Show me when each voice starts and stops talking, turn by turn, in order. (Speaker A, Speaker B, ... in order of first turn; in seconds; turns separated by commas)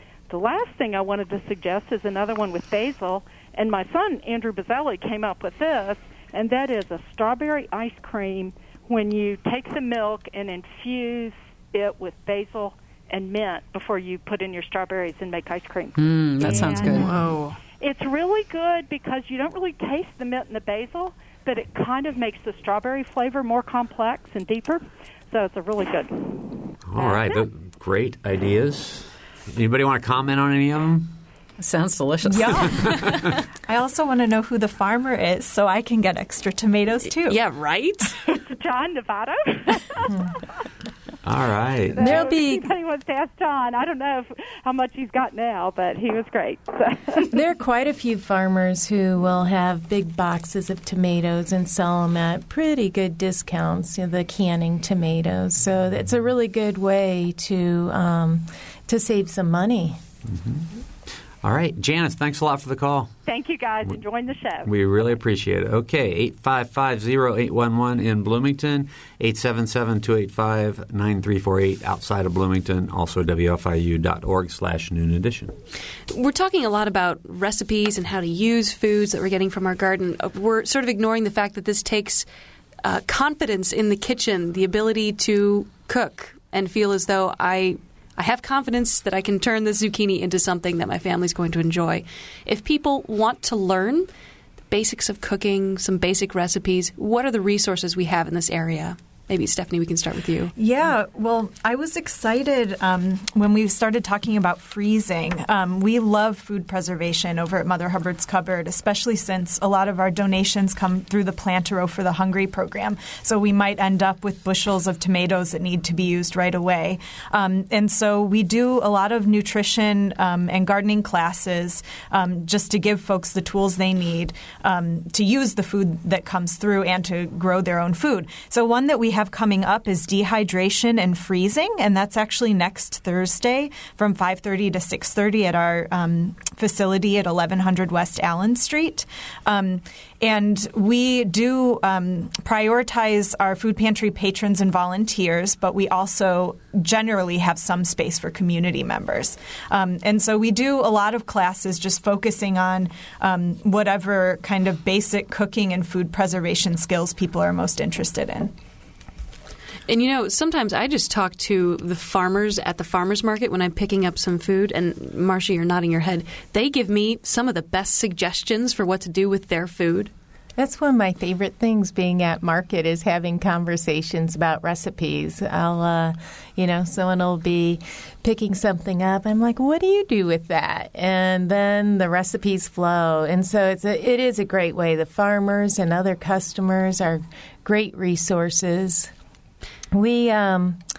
Speaker A: 0.3-27.4, Speaker B: 16.0-17.1, Speaker C: 17.1-17.4, Speaker D: 26.9-31.1, Speaker B: 31.6-33.1, Speaker E: 32.3-37.4, Speaker C: 37.2-38.2, Speaker A: 38.4-40.5, Speaker D: 41.2-42.3, Speaker A: 41.9-47.4, Speaker F: 42.0-42.7, Speaker F: 47.3-60.0, Speaker D: 60.3-60.6, Speaker D: 61.4-63.1, Speaker A: 63.2-64.7, Speaker D: 64.6-75.5, Speaker C: 76.1-82.2, Speaker C: 82.8-94.1, Speaker C: 94.7-100.5, Speaker E: 100.5-158.5, Speaker C: 159.9-170.1, Speaker F: 170.6-189.1, Speaker F: 189.9-190.8